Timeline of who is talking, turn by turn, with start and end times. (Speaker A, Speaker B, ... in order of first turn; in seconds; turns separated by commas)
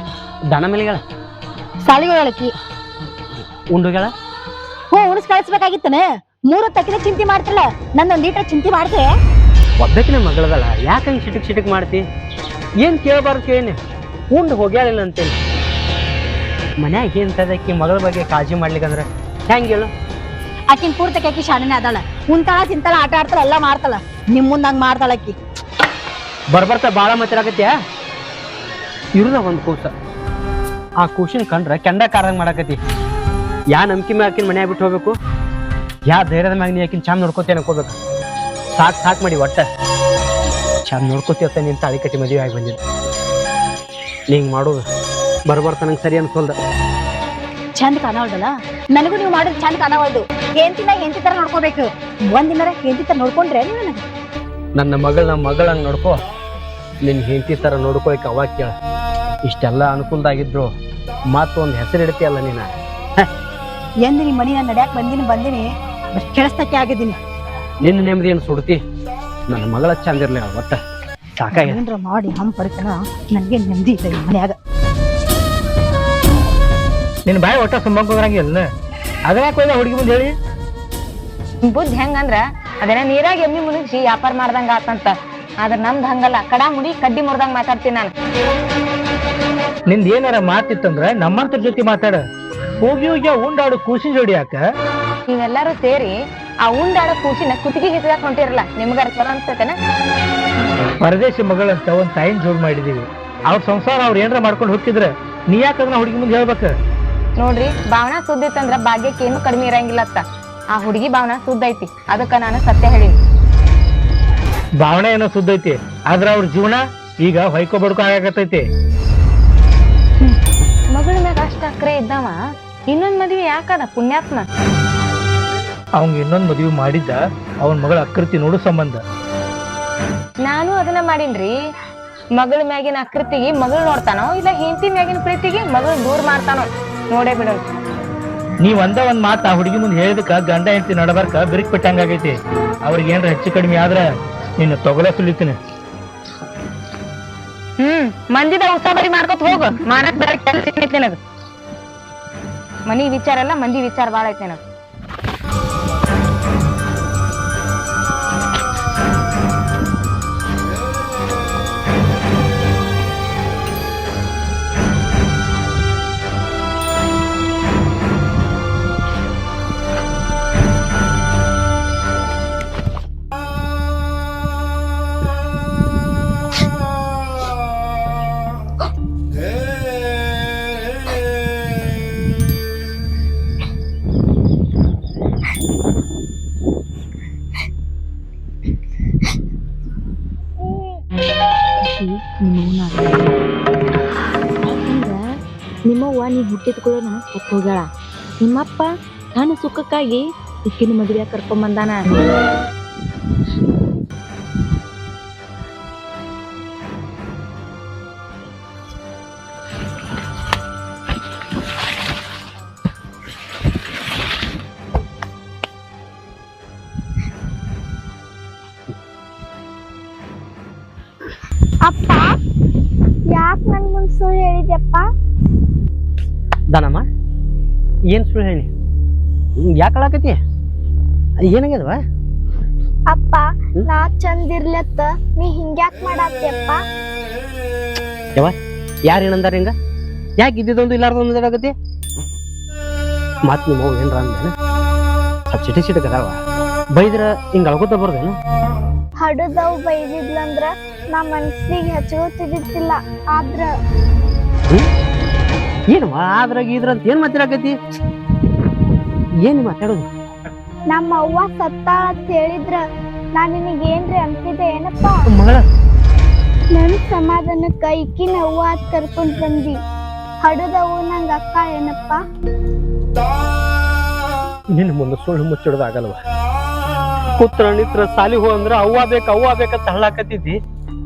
Speaker A: 0.5-1.0, Speaker B: 1.9-2.5, Speaker A: 3.7-4.1, Speaker B: 4.9-9.1, Speaker A: 9.8-12.0, Speaker A: 12.8-13.8, Speaker A: 14.3-15.4, Speaker A: 16.8-19.9, Speaker B: 20.7-25.4, Speaker A: 26.5-27.7, Speaker A: 29.2-29.9, Speaker A: 31.0-32.8, Speaker A: 33.7-35.2, Speaker A: 36.1-38.0, Speaker A: 38.8-39.7, Speaker A: 40.9-42.8, Speaker A: 44.3-44.8, Speaker A: 45.5-46.6, Speaker B: 47.8-54.0, Speaker A: 54.8-56.2, Speaker A: 57.0-58.8, Speaker A: 59.5-60.7, Speaker A: 61.3-63.3, Speaker B: 64.0-67.2, Speaker A: 67.8-68.8, Speaker A: 69.5-70.8, Speaker A: 71.4-71.8, Speaker B: 71.5-74.5, Speaker C: 77.3-78.7, Speaker C: 79.3-80.3, Speaker D: 81.7-88.1, Speaker C: 89.9-92.2, Speaker C: 92.8-94.6, Speaker D: 95.3-99.8, Speaker C: 101.0-106.7, Speaker D: 107.4-110.2, Speaker D: 110.8-113.2, Speaker C: 114.8-118.6, Speaker D: 120.9-122.4, Speaker D: 122.9-124.5, Speaker C: 126.0-129.0, Speaker D: 130.4-131.5, Speaker D: 132.4-137.6, Speaker C: 138.6-144.0, Speaker C: 144.6-145.6, Speaker D: 147.8-151.2, Speaker D: 152.9-154.6, Speaker E: 191.9-193.2, Speaker E: 194.7-195.2, Speaker E: 195.9-197.9, Speaker E: 198.4-202.0, Speaker F: 221.8-222.4, Speaker F: 223.3-225.1, Speaker A: 226.7-227.1, Speaker A: 228.1-228.7, Speaker A: 229.7-230.4, Speaker A: 231.5-232.0, Speaker F: 233.1-236.8, Speaker A: 239.1-239.7, Speaker A: 240.4-241.7, Speaker A: 243.5-244.5, Speaker A: 245.5-246.4, Speaker A: 246.9-248.4, Speaker F: 249.2-253.7, Speaker A: 255.9-257.8, Speaker A: 259.4-260.1, Speaker F: 260.9-262.8, Speaker F: 263.4-265.3, Speaker A: 265.3-265.7, Speaker F: 266.8-269.8, Speaker F: 270.4-272.2, Speaker A: 274.7-276.2, Speaker A: 277.4-280.6